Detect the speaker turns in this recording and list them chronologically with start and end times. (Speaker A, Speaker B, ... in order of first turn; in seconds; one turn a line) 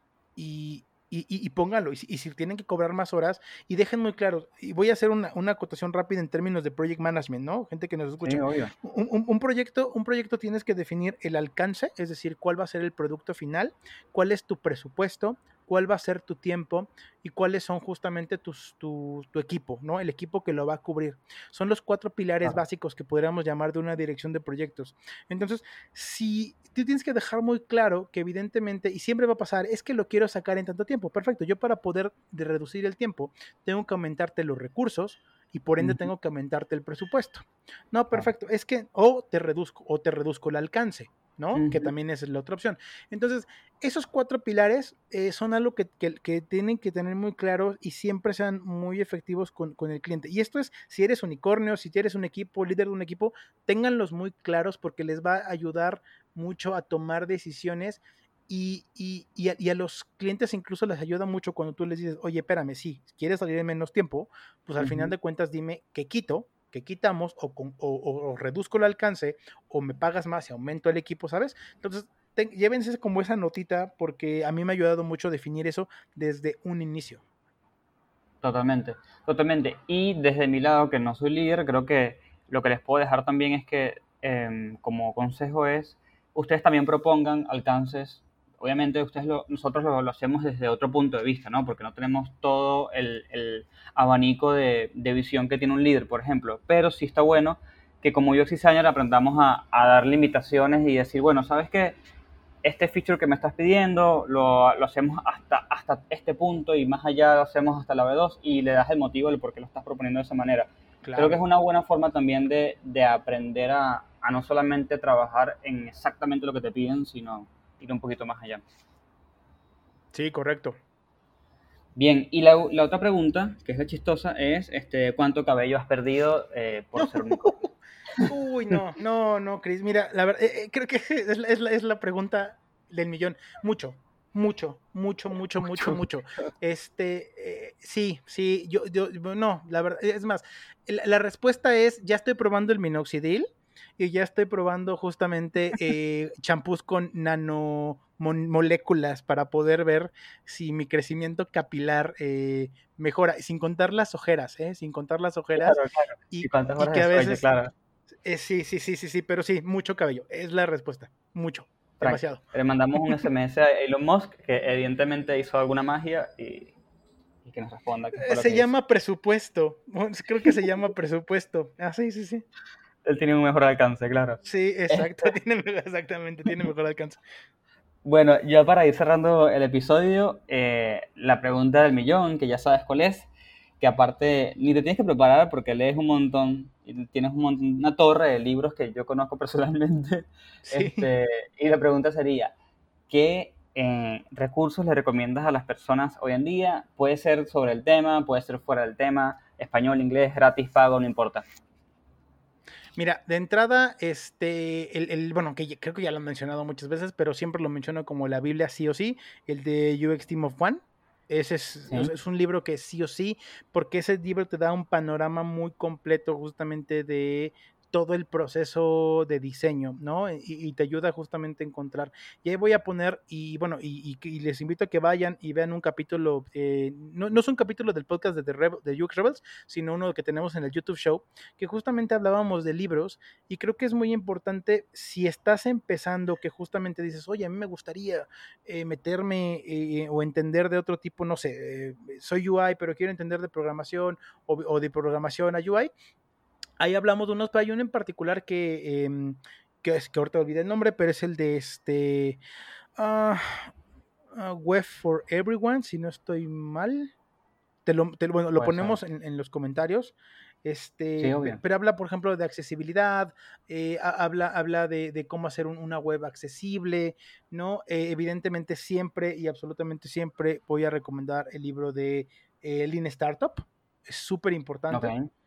Speaker A: 0.4-77.2
Speaker B: 8.2-8.7
Speaker B: 35.8-36.1
Speaker B: 41.5-41.9
Speaker B: 64.8-65.1
Speaker B: 78.4-102.0
Speaker B: 102.6-118.6
Speaker A: 111.0-111.4
Speaker A: 120.1-120.8
Speaker B: 122.0-127.7
Speaker A: 127.0-127.7
Speaker B: 128.2-128.8
Speaker A: 128.3-155.8
Speaker B: 135.6-136.0
Speaker B: 155.6-157.7
Speaker A: 156.3-157.5
Speaker A: 158.2-162.4
Speaker B: 162.0-166.8
Speaker A: 163.0-163.2
Speaker B: 167.4-168.7
Speaker A: 168.2-172.4
Speaker B: 173.1-175.3
Speaker A: 174.4-177.2
Speaker B: 178.1-183.3
Speaker B: 183.8-192.5
Speaker A: 190.7-191.1
Speaker B: 193.1-201.5
Speaker A: 203.0-245.9
Speaker A: 246.8-252.4
Speaker A: 253.0-253.7
Speaker A: 254.3-257.1
Speaker A: 257.9-275.1
Speaker B: 258.6-259.0
Speaker B: 261.2-261.6
Speaker B: 274.9-275.3